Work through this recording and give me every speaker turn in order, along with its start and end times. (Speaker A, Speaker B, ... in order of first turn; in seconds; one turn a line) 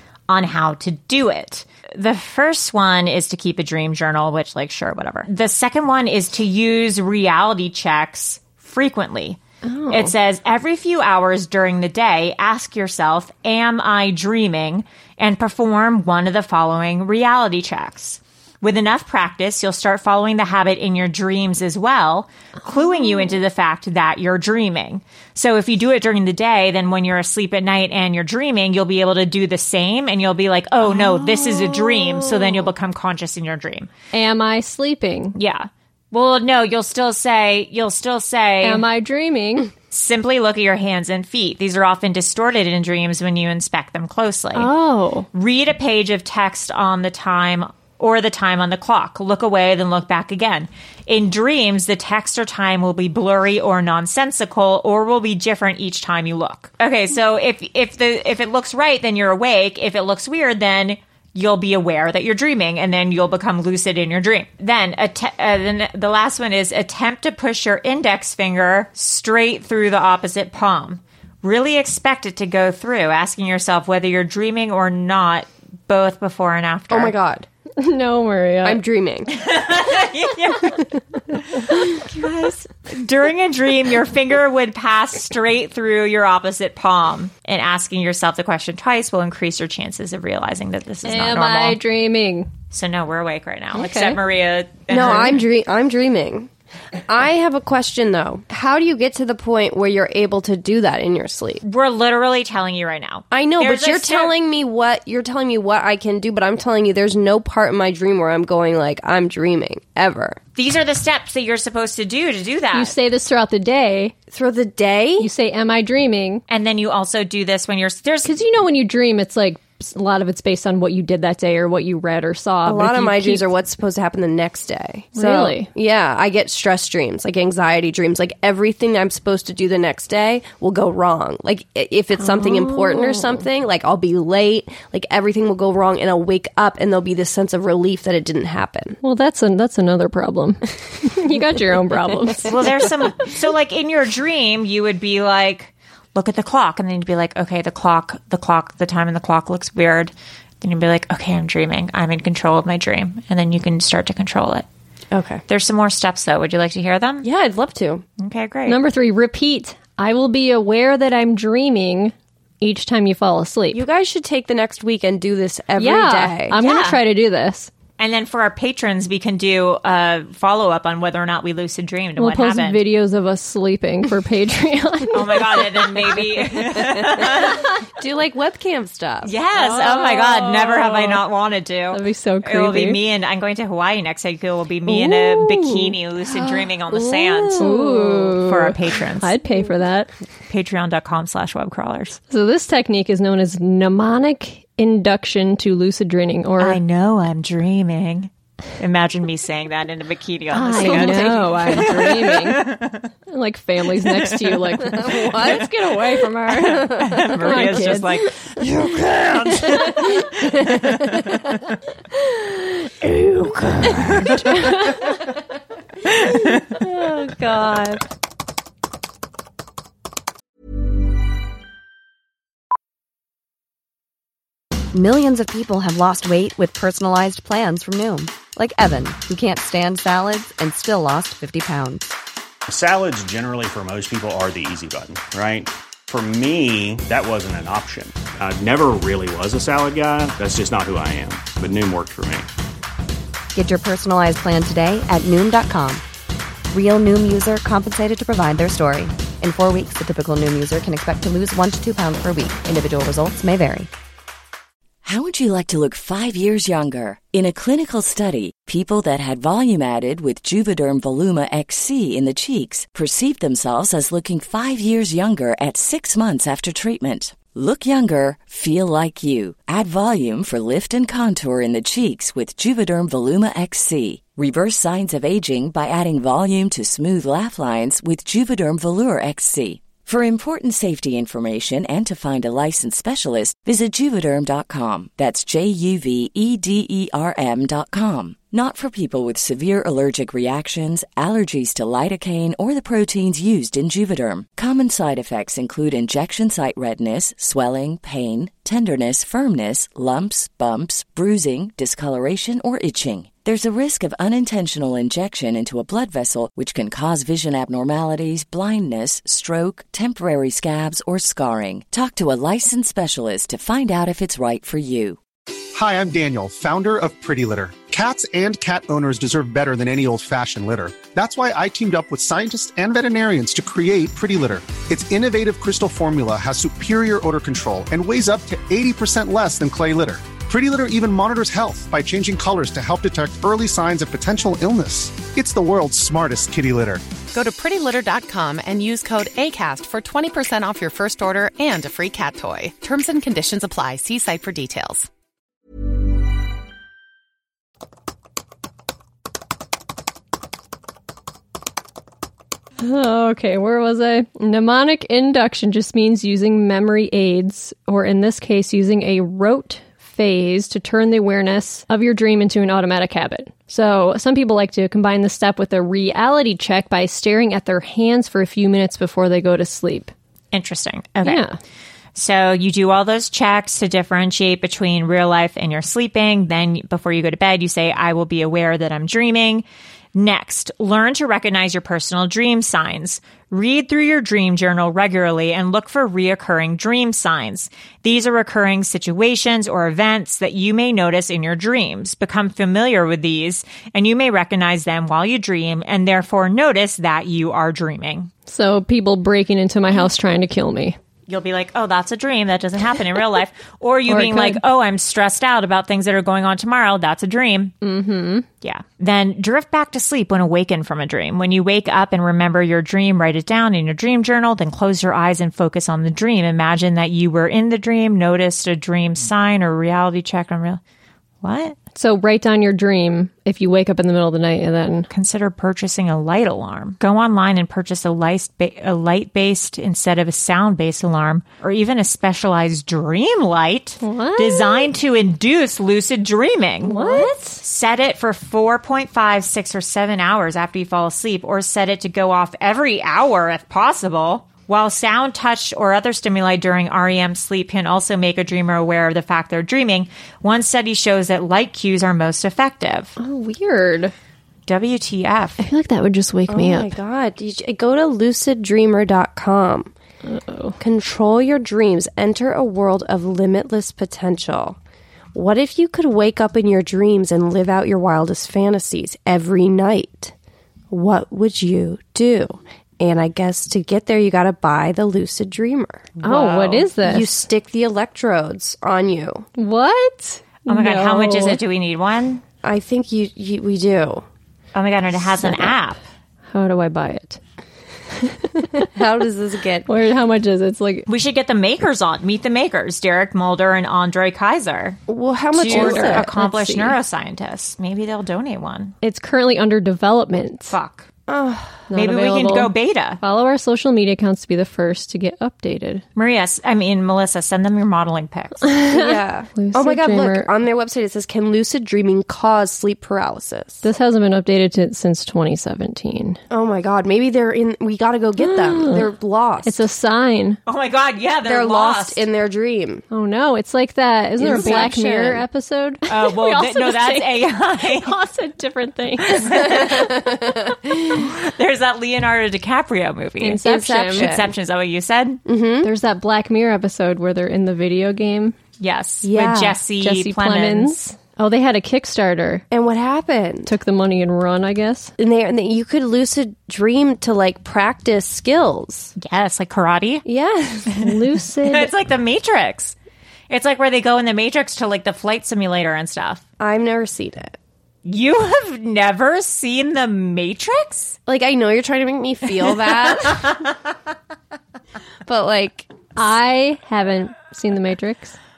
Speaker A: 0.3-9.4
Speaker B: 9.6-10.1
Speaker A: 9.9-33.9
Speaker B: 30.9-32.6
Speaker B: 34.1-35.4
Speaker A: 35.4-38.9
Speaker B: 38.6-39.7
Speaker A: 39.9-44.7
Speaker B: 44.5-45.3
Speaker A: 45.3-77.2
Speaker C: 76.9-77.5
Speaker B: 77.8-78.8
Speaker C: 78.6-79.3
Speaker A: 79.3-80.8
Speaker A: 81.5-91.8
Speaker B: 91.0-92.5
Speaker A: 92.7-95.4
Speaker B: 93.8-94.2
Speaker C: 94.9-96.5
Speaker C: 97.1-101.6
Speaker A: 101.6-104.3
Speaker C: 103.3-110.4
Speaker A: 110.6-112.9
Speaker B: 112.7-114.2
Speaker C: 114.3-115.3
Speaker B: 115.2-116.4
Speaker A: 116.5-118.3
Speaker B: 118.2-123.5
Speaker C: 122.7-139.0
Speaker B: 125.2-125.7
Speaker B: 132.2-133.5
Speaker B: 139.0-142.6
Speaker A: 142.4-154.7
Speaker C: 155.1-155.4
Speaker A: 155.5-157.3
Speaker C: 157.2-158.0
Speaker A: 158.2-158.8
Speaker B: 158.7-163.8
Speaker C: 163.7-166.6
Speaker B: 165.8-167.7
Speaker A: 166.6-167.0
Speaker A: 168.0-172.8
Speaker B: 172.2-175.8
Speaker A: 175.1-177.7
Speaker C: 176.9-179.3
Speaker A: 179.2-189.3
Speaker B: 179.6-181.2
Speaker B: 181.9-183.0
Speaker B: 184.9-186.0
Speaker C: 186.3-188.3
Speaker B: 187.6-190.1
Speaker A: 190.5-192.2
Speaker B: 192.3-196.8
Speaker A: 196.6-203.1
Speaker B: 200.5-202.7
Speaker C: 200.8-201.6
Speaker B: 203.3-208.2
Speaker A: 204.0-204.7
Speaker C: 204.8-205.7
Speaker A: 206.6-208.3
Speaker C: 206.6-207.7
Speaker A: 209.2-210.2
Speaker B: 209.7-210.1
Speaker B: 214.0-215.2
Speaker C: 217.0-218.0
Speaker D: 224.9-232.1
Speaker E: 232.7-242.5
Speaker D: 243.5-246.0
Speaker D: 246.7-253.9
Speaker F: 255.0-315.2
Speaker G: 315.8-337.1
Speaker H: 337.3-345.1
Speaker B: 352.8-370.1
Speaker A: 370.5-371.4
Speaker B: 371.2-371.6
Speaker A: 372.1-379.6
Speaker A: 380.1-398.3
Speaker B: 398.5-401.0
Speaker A: 401.3-407.7
Speaker B: 404.1-404.6
Speaker B: 407.8-408.5
Speaker A: 408.6-420.8
Speaker A: 421.4-421.8
Speaker B: 421.9-425.1
Speaker A: 425.1-453.2
Speaker B: 434.0-434.9
Speaker B: 436.8-437.6
Speaker B: 453.2-454.1
Speaker A: 454.7-455.6
Speaker B: 455.6-456.9
Speaker C: 456.5-459.9
Speaker B: 460.2-460.8
Speaker C: 460.8-464.8
Speaker C: 465.3-470.3
Speaker C: 470.9-476.1
Speaker A: 476.2-476.9
Speaker B: 476.2-477.4
Speaker C: 477.0-479.5
Speaker B: 479.6-481.6
Speaker A: 480.7-482.4
Speaker C: 482.6-484.2
Speaker A: 484.7-486.0
Speaker B: 485.4-485.7
Speaker B: 486.5-487.4
Speaker B: 488.2-488.9
Speaker C: 488.9-489.9
Speaker B: 489.9-491.1
Speaker A: 491.1-495.0
Speaker C: 495.1-496.3
Speaker A: 495.5-498.9
Speaker B: 495.7-497.0
Speaker B: 499.0-500.8
Speaker A: 500.7-501.1
Speaker C: 501.3-501.9
Speaker B: 501.9-506.0
Speaker A: 501.9-503.2
Speaker A: 506.1-508.7
Speaker B: 508.6-510.5
Speaker C: 508.9-513.9
Speaker B: 513.8-516.4
Speaker C: 516.5-519.8
Speaker B: 518.4-519.1
Speaker B: 519.6-520.6
Speaker A: 520.7-522.2
Speaker C: 521.4-523.0
Speaker B: 523.1-530.0
Speaker C: 524.4-525.4
Speaker A: 524.5-524.9
Speaker A: 526.1-528.1
Speaker A: 529.4-530.1
Speaker C: 530.0-531.1
Speaker A: 531.2-535.4
Speaker B: 533.4-534.4
Speaker C: 533.6-534.5
Speaker C: 535.5-535.9
Speaker B: 535.8-538.6
Speaker A: 538.8-541.0
Speaker C: 539.2-539.8
Speaker B: 540.0-542.6
Speaker C: 542.7-543.7
Speaker B: 543.7-545.1
Speaker C: 545.2-549.1
Speaker A: 549.2-550.2
Speaker C: 550.2-551.0
Speaker B: 551.0-551.9
Speaker A: 551.6-553.0
Speaker A: 553.5-556.4
Speaker C: 556.6-557.6
Speaker A: 558.0-561.2
Speaker C: 561.3-563.6
Speaker C: 565.3-565.9
Speaker B: 566.2-568.4